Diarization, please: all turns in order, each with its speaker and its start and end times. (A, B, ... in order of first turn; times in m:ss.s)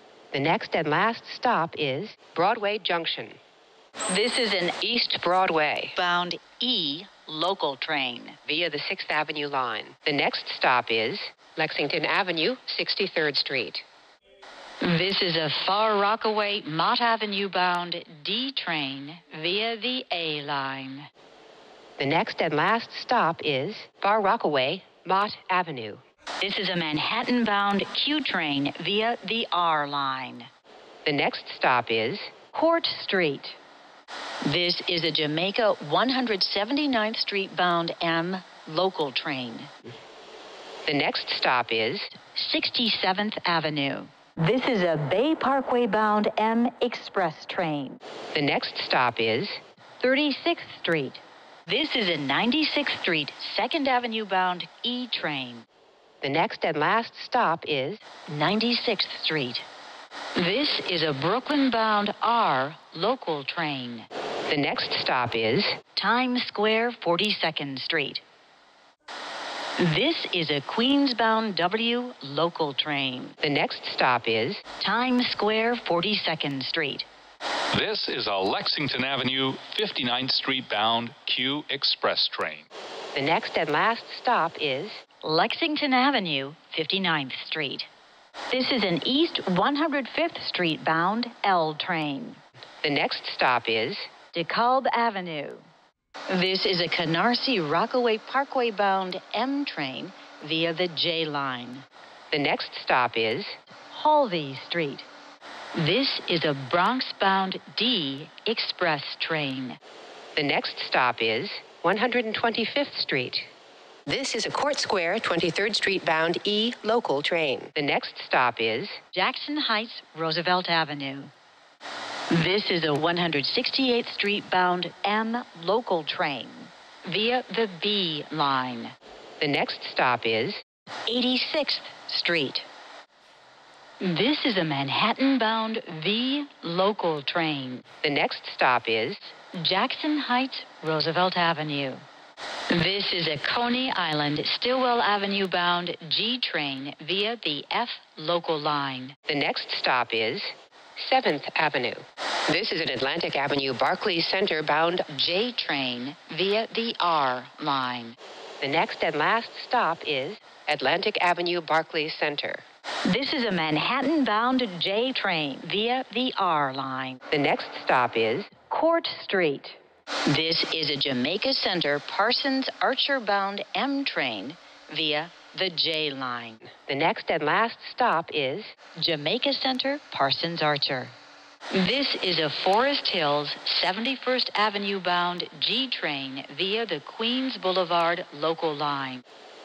0:00.3-0:03.4 A
0:04.1-0:05.0 B
0:05.0-0:06.0 A
0:05.9-0:08.4 B
0:08.4-0:13.8 A
0:14.8-0:21.1 B
0:22.0-0:26.0 A
0:26.4-0:30.5 B
0:31.0-0:32.3 A
0:32.5-0:33.6 B
0:34.4-0:39.7 B
0:40.8-0:42.1 A
0:42.1-0:48.0 B
0:48.3-0:49.6 A
0:50.0-0:55.6 B
0:56.2-0:58.0 A
0:58.3-0:59.6 B
1:00.3-1:04.1 B
1:04.5-1:05.8 A
1:05.9-1:08.2 B
1:09.8-1:13.4 B
1:13.4-1:14.6 A
1:14.8-1:17.1 B
1:17.7-1:22.7 C
1:23.1-1:25.0 A
1:25.2-1:27.9 B
1:28.5-1:32.4 B
1:32.8-1:34.1 A
1:34.3-1:35.6 B
1:36.3-1:41.8 B
1:42.3-1:43.6 A
1:43.9-1:45.0 B
1:45.7-1:49.8 B
1:50.3-1:53.4 A
1:54.0-1:59.0 A
1:59.1-2:01.3 B
2:02.3-2:08.9 B
2:09.4-2:10.6 A
2:11.1-2:12.6 B
2:14.0-2:17.8 B
2:18.0-2:19.3 A
2:19.5-2:22.0 B
2:22.7-2:29.1 B
2:29.3-2:35.1 A
2:35.1-2:38.2 B
2:38.6-2:42.6 A
2:43.0-2:47.2 B
2:47.3-2:48.5 A
2:48.7-2:56.6 B
2:56.9-2:58.7 A
2:59.0-3:01.1 B
3:01.7-3:09.2 B